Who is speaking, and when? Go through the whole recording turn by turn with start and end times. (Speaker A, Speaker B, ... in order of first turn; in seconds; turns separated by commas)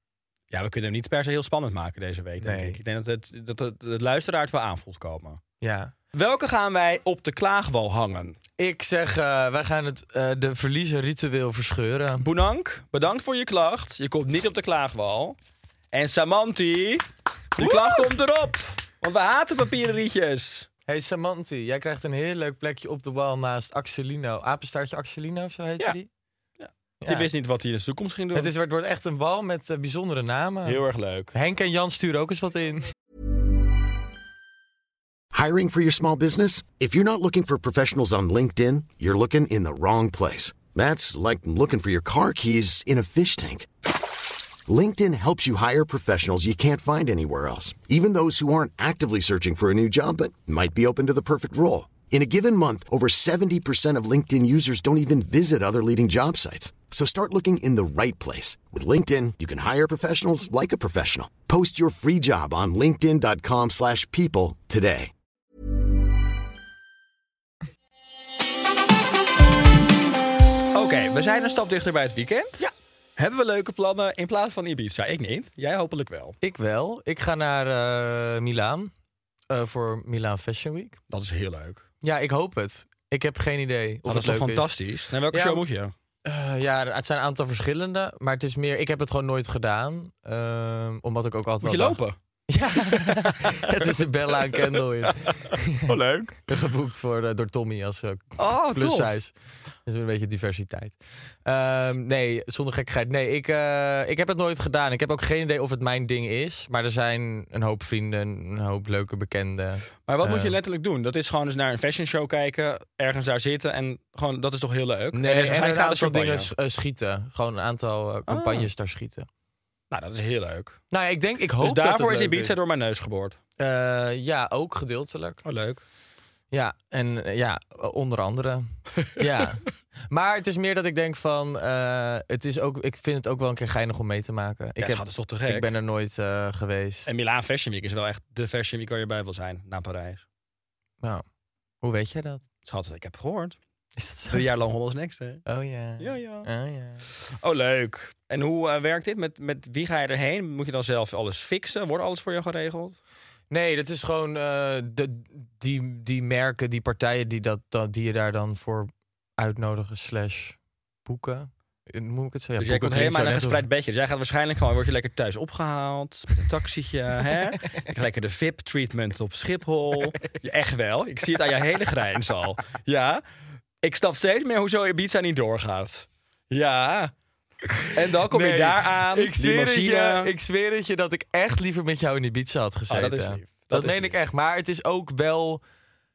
Speaker A: 0.5-5.4, Speaker B: 2.4-2.8, Speaker B: 5.6-5.9, Speaker A: 6.1-8.4, Speaker B: 8.6-12.3, Speaker A: 12.2-15.4, Speaker A: 15.9-20.7, Speaker B: 17.6-18.1, Speaker B: 20.9-26.1, Speaker A: 26.6-28.5, Speaker B: 27.0-27.3, Speaker B: 28.3-30.8, Speaker A: 30.6-31.3, Speaker B: 31.3-32.9, Speaker C: 35.3-43.7, Speaker C: 44.7-65.1, Speaker A: 70.7-72.6, Speaker A: 73.2-76.3, Speaker B: 76.4-78.9, Speaker B: 79.5-81.0, Speaker A: 81.1-81.8, Speaker B: 82.0-84.7, Speaker A: 84.1-85.9, Speaker B: 85.3-85.6, Speaker B: 86.2-99.3, Speaker A: 91.6-92.2, Speaker A: 92.9-93.9, Speaker A: 95.3-96.4, Speaker A: 98.4-99.1, Speaker B: 99.8-110.5, Speaker A: 110.0-116.5, Speaker B: 115.1-119.3, Speaker A: 118.3-118.7, Speaker A: 119.9-120.8, Speaker B: 120.9-122.5, Speaker A: 121.6-123.4, Speaker B: 123.6-125.4, Speaker A: 125.4-125.8, Speaker B: 126.5-137.1, Speaker A: 134.8-135.7, Speaker A: 137.1-140.2, Speaker B: 141.8-142.4, Speaker A: 142.7-143.6, Speaker B: 144.0-144.4, Speaker A: 144.3-145.4, Speaker B: 145.4-147.1, Speaker A: 146.0-146.5, Speaker A: 147.4-152.9, Speaker B: 153.5-163.7, Speaker A: 162.6-173.2, Speaker A: 173.8-177.1, Speaker A: 177.9-180.3, Speaker B: 178.3-185.6, Speaker A: 182.9-184.2